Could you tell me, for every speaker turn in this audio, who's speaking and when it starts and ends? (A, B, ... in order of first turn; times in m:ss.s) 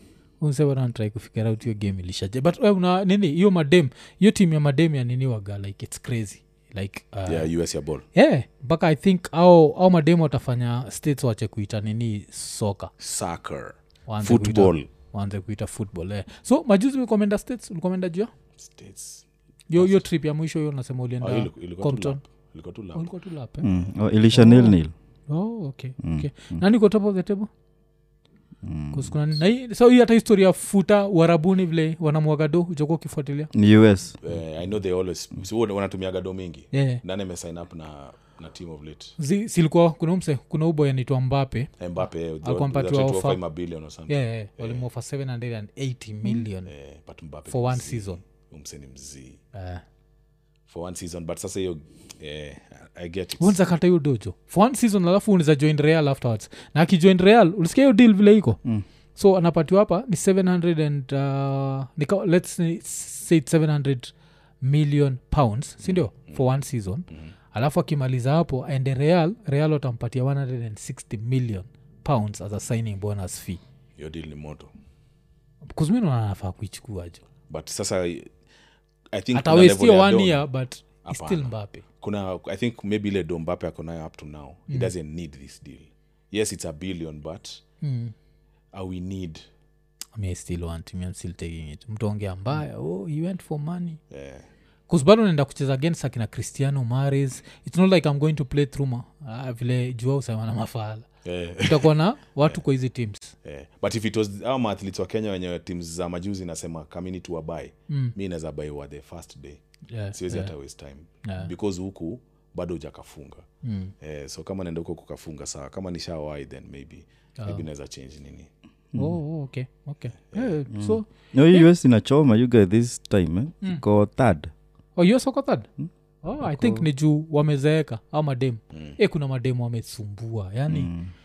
0:00.4-0:12.9 A
0:07.3-0:08.1 B
0:13.0-0:14.9 B
0:14.1-0:18.3 A
0:18.6-0:20.1 B
0:19.7-0:22.2 A
0:21.2-0:23.1 B
0:22.9-0:23.7 A
0:23.6-0:24.9 C
0:23.6-0:23.9 B
0:24.3-0:24.8 A
0:25.3-0:27.5 A
0:26.0-0:26.6 C
0:28.6-0:29.2 C
0:28.9-0:33.5 A
0:33.5-0:34.2 C
0:34.2-0:39.2 B
0:36.7-0:37.0 A
0:39.2-0:43.4 A
0:41.8-0:44.8 B
0:44.1-0:46.7 A
0:46.7-0:49.4 B
0:47.5-0:48.2 A
0:49.5-0:49.8 A
0:50.7-0:53.6 B
0:53.4-0:58.6 A
0:59.2-1:13.6 A
1:05.8-1:06.4 B
1:14.0-1:14.7 B
1:15.7-1:17.2 A
1:17.5-1:18.3 B
1:19.1-1:20.5 B
1:19.3-1:21.8 A
1:21.0-1:27.6 B
1:27.8-1:28.1 A
1:28.7-1:29.4 B
1:30.2-1:34.0 A
1:34.1-1:34.4 B
1:34.9-1:41.1 A
1:41.2-1:41.9 B
1:41.6-1:43.3 A
1:43.4-1:49.6 B
1:47.9-1:48.2 A
1:49.9-1:50.5 A
1:50.1-1:53.4 B
1:51.2-1:51.5 A
1:53.6-1:53.9 A
1:54.0-1:58.5 B
1:57.4-1:57.6 A
1:59.0-2:01.7 A
2:00.3-2:00.6 B
2:00.7-2:04.5 C
2:05.0-2:05.7 A
2:06.2-2:10.9 A
2:06.4-2:06.8 C
2:08.7-2:09.0 B
2:10.7-2:11.1 C